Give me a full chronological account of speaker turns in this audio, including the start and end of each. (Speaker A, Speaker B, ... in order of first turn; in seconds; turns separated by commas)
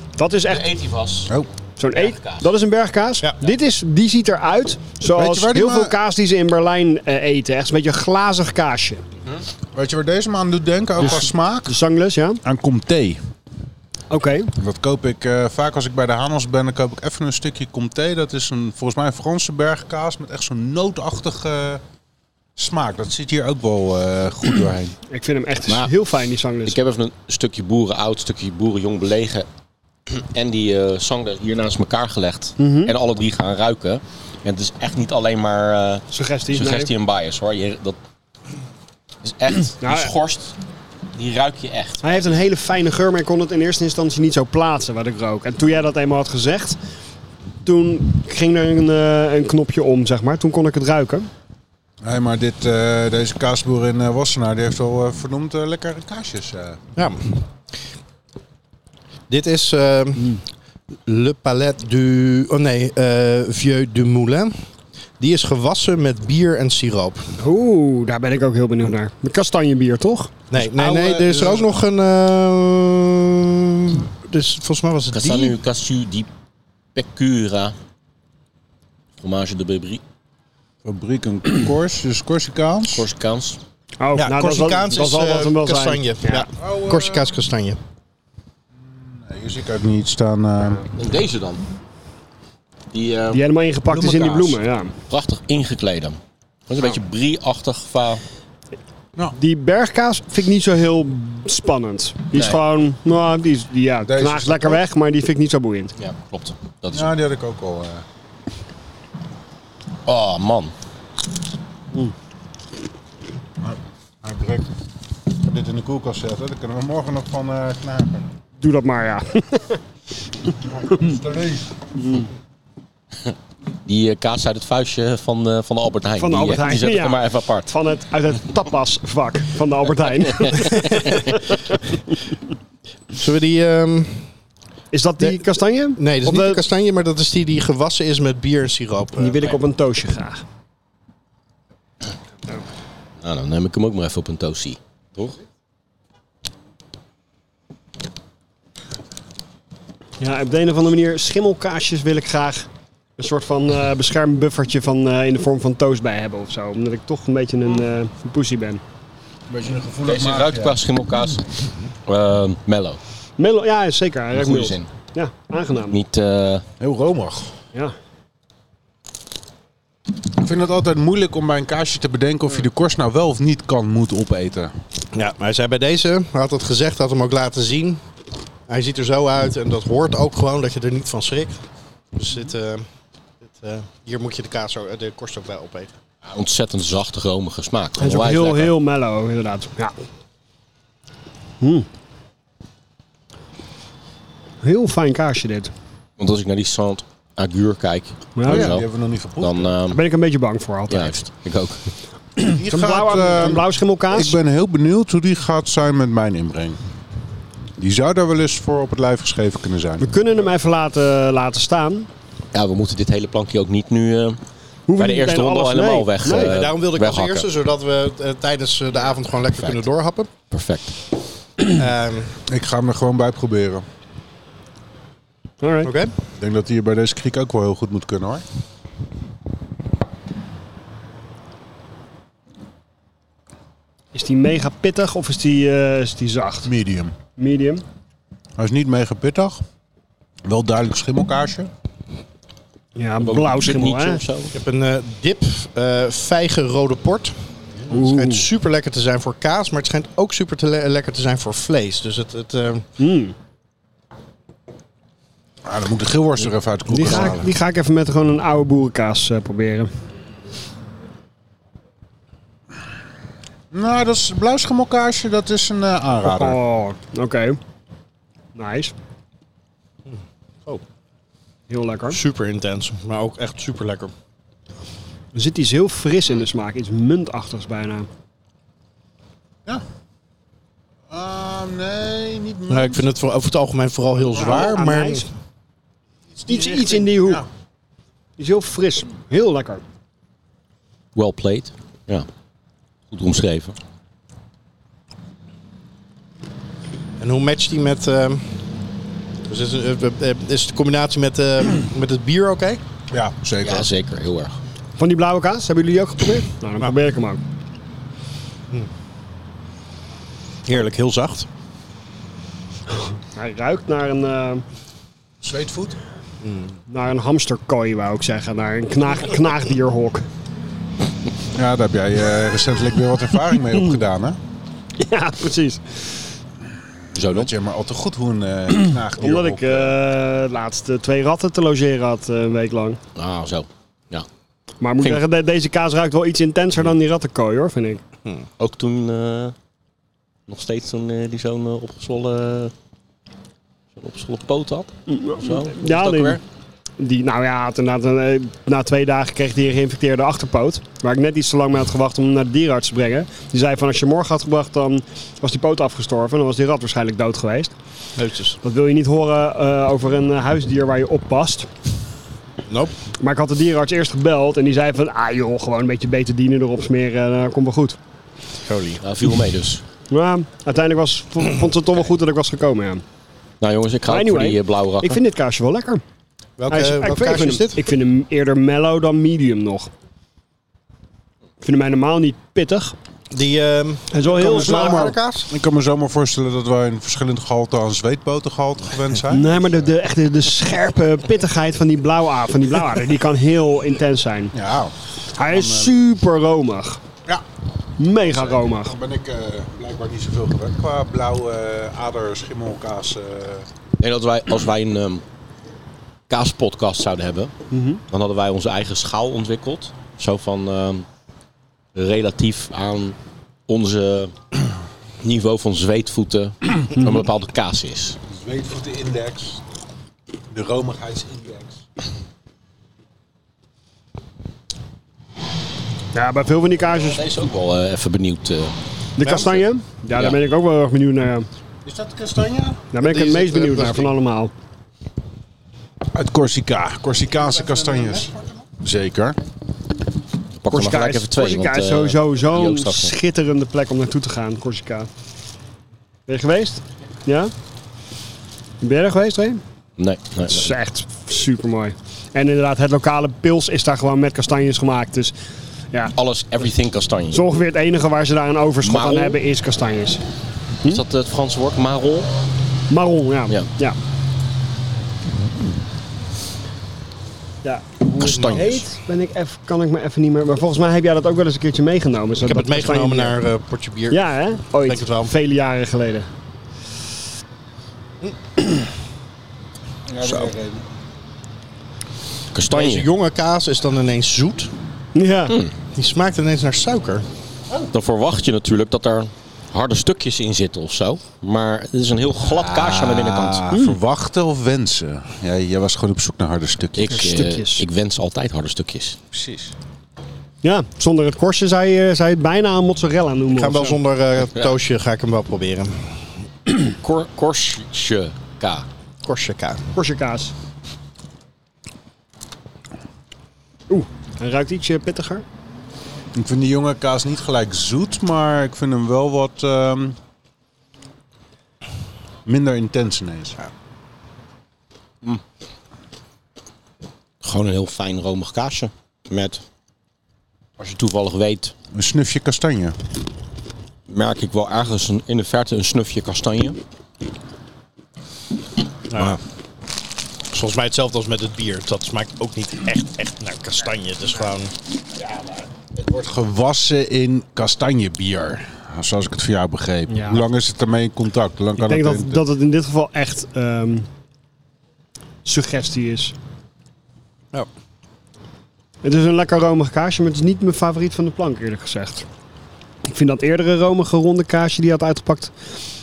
Speaker A: 0.2-0.7, Speaker B: 0.5-1.3, Speaker A: 1.8-9.0, Speaker B: 1.9-2.5, Speaker C: 5.1-6.0, Speaker C: 9.7-11.8, Speaker A: 11.0-12.4, Speaker C: 12.4-13.2, Speaker A: 14.1-14.5, Speaker C: 14.6-21.8, Speaker C: 22.6-24.9, Speaker A: 25.1-26.8, Speaker B: 25.7-25.9, Speaker B: 26.6-29.5, Speaker B: 30.1-38.0, Speaker A: 32.6-32.9, Speaker A: 36.1-36.9, Speaker B: 39.2-40.5, Speaker A: 39.8-40.1, Speaker B: 41.1-42.2, Speaker A: 42.0-46.8, Speaker A: 47.6-51.3, Speaker C: 52.0-56.8, Speaker D: 57.0-57.4, Speaker D: 59.3-60.4, Speaker D: 61.1-64.5, Speaker D: 65.2-67.3, Speaker A: 67.4-70.3, Speaker D: 70.5-75.6, Speaker C: 70.6-71.7, Speaker B: 75.1-76.3, Speaker B: 77.0-77.8, Speaker B: 79.2-80.0, Speaker C: 80.8-83.1, Speaker B: 82.9-83.6, Speaker A: 84.0-86.5, Speaker D: 84.2-87.8, Speaker C: 86.6-87.3, Speaker C: 88.9-90.9, Speaker B: 90.9-91.6, Speaker B: 92.9-93.4, Speaker A: 93.3-94.9, Speaker C: 93.9-94.6, Speaker B: 95.1-98.2, Speaker A: 99.4-105.9, Speaker B: 102.3-102.6, Speaker C: 104.0-104.8, Speaker B: 106.0-107.1, Speaker C: 106.9-108.0, Speaker B: 110.1-110.7, Speaker C: 113.6-114.7, Speaker C: 115.3-118.3, Speaker A: 118.6-119.8, Speaker C: 120.6-121.8, Speaker A: 122.0-122.3, Speaker B: 123.8-127.7, Speaker A: 126.2-131.8, Speaker B: 130.5-131.3, Speaker D: 133.1-134.3, Speaker A: 134.9-136.6, Speaker D: 136.0-139.4, Speaker A: 139.2-140.4, Speaker B: 143.2-145.4, Speaker A: 150.2-158.8, Speaker C: 159.5-160.8, Speaker B: 160.0-161.5, Speaker B: 162.1-163.0, Speaker A: 163.4-166.0, Speaker B: 164.3-164.9, Speaker B: 165.9-166.6, Speaker C: 166.8-167.5, Speaker C: 170.4-174.7, Speaker D: 175.1-178.0, Speaker D: 178.7-181.6, Speaker D: 182.1-182.9, Speaker D: 183.4-185.9, Speaker B: 186.2-188.7, Speaker A: 188.0-189.9, Speaker A: 191.6-191.9, Speaker A: 194.6-195.7, Speaker B: 196.2-198.9, Speaker A: 198.4-198.7, Speaker C: 198.5-199.8, Speaker B: 199.4-200.0, Speaker A: 199.9-201.2, Speaker B: 200.9-201.8, Speaker C: 202.4-206.8, Speaker A: 202.4-204.4, Speaker C: 207.8-210.1, Speaker A: 210.0-212.1, Speaker B: 212.5-214.4, Speaker A: 214.9-216.5, Speaker B: 215.0-217.5, Speaker D: 216.3-220.3, Speaker B: 220.5-221.0, Speaker D: 221.6-222.3, Speaker C: 222.5-223.8, Speaker A: 225.6-225.9, Speaker D: 225.8-226.1, Speaker C: 226.4-228.4, Speaker A: 234.1-236.7, Speaker C: 236.6-237.1, Speaker A: 237.4-237.8, Speaker C: 238.6-239.6, Speaker C: 240.5-241.7, Speaker A: 243.0-244.2, Speaker B: 243.2-244.5, Speaker D: 244.5-252.9, Speaker A: 247.9-248.5, Speaker A: 253.0-253.3, Speaker C: 255.6-257.5, Speaker A: 256.9-259.9, Speaker C: 263.7-266.6, Speaker A: 266.2-267.6, Speaker A: 268.5-268.9, Speaker D: 270.1-270.8, Speaker A: 271.7-272.2, Speaker D: 272.1-274.1, Speaker A: 275.3-278.1, Speaker C: 281.1-283.1, Speaker D: 282.7-285.3, Speaker C: 284.4-284.7, Speaker A: 284.4-285.2, Speaker C: 286.4-287.5, Speaker A: 286.5-287.4, Speaker A: 288.4-289.8, Speaker B: 291.1-292.3, Speaker B: 293.1-293.8, Speaker D: 297.2-298.5, Speaker D: 299.4-302.8, Speaker C: 303.1-303.9, Speaker B: 303.6-304.6, Speaker A: 305.0-307.4, Speaker D: 310.6-311.5, Speaker A: 313.4-314.6, Speaker C: 315.4-316.0, Speaker D: 316.4-316.8, Speaker A: 316.9-320.2, Speaker C: 321.5-324.4, Speaker A: 325.0-326.0, Speaker B: 327.1-327.5, Speaker C: 327.3-330.0, Speaker A: 329.1-333.0, Speaker B: 333.1-334.2, Speaker A: 334.8-338.0, Speaker B: 338.6-339.5, Speaker B: 340.5-342.7, Speaker B: 344.0-346.4, Speaker A: 345.1-346.4, Speaker A: 347.0-357.7, Speaker D: 358.1-358.6, Speaker A: 358.6-361.7, Speaker D: 362.7-363.0, Speaker A: 363.2-368.0, Speaker D: 368.6-369.0, Speaker B: 369.0-369.8, Speaker A: 370.1-373.0, Speaker B: 373.6-375.2, Speaker A: 374.1-376.0, Speaker D: 376.6-377.8, Speaker A: 376.7-379.9, Speaker A: 381.6-382.9, Speaker D: 383.3-385.5, Speaker A: 384.1-385.1, Speaker C: 384.3-389.8, Speaker A: 389.3-394.5, Speaker C: 394.5-395.9, Speaker A: 395.4-397.0, Speaker A: 398.0-398.9, Speaker C: 398.2-403.7, Speaker B: 404.0-405.2, Speaker B: 406.3-407.5, Speaker A: 407.7-408.0, Speaker B: 408.1-411.1, Speaker B: 411.9-413.1, Speaker B: 413.7-414.3, Speaker B: 415.2-418.2, Speaker C: 418.3-419.6, Speaker C: 420.5-421.8, Speaker A: 426.1-427.2, Speaker B: 426.9-428.7, Speaker A: 429.1-431.5, Speaker D: 429.2-429.6, Speaker B: 430.1-430.4, Speaker C: 431.9-432.8, Speaker A: 432.9-434.5, Speaker D: 433.0-434.1, Speaker C: 436.1-439.4, Speaker D: 437.5-438.4, Speaker B: 440.6-443.1, Speaker A: 440.7-445.1, Speaker A: 446.3-447.5, Speaker A: 448.8-449.6, Speaker B: 450.0-450.8, Speaker A: 450.5-455.4, Speaker B: 456.1-457.4, Speaker A: 457.3-460.2, Speaker B: 458.8-459.4, Speaker B: 460.9-462.3, Speaker A: 462.9-464.0, Speaker A: 467.6-473.4, Speaker B: 468.1-468.9, Speaker D: 472.4-474.2, Speaker A: 474.1-476.3, Speaker D: 474.8-475.3, Speaker C: 480.1-480.9, Speaker B: 482.5-483.1, Speaker D: 482.7-484.7, Speaker A: 485.1-485.6, Speaker D: 485.9-487.2, Speaker B: 487.9-493.6, Speaker C: 492.5-497.3, Speaker A: 493.7-494.0, Speaker B: 496.9-499.2, Speaker A: 497.1-497.9, Speaker C: 499.3-499.7, Speaker A: 500.6-504.0, Speaker D: 503.5-506.2, Speaker B: 507.0-508.9, Speaker D: 509.2-509.8, Speaker A: 509.9-510.5, Speaker A: 513.9-515.4, Speaker C: 516.4-520.2, Speaker C: 522.5-523.6, Speaker B: 527.4-529.6, Speaker B: 530.8-531.7, Speaker C: 531.9-533.0, Speaker B: 534.1-536.8, Speaker D: 539.1-539.4, Speaker D: 540.5-544.7, Speaker C: 545.9-552.4, Speaker A: 550.1-550.4, Speaker A: 551.8-554.1, Speaker A: 555.4-556.3, Speaker A: 559.0-562.3, Speaker A: 563.0-565.5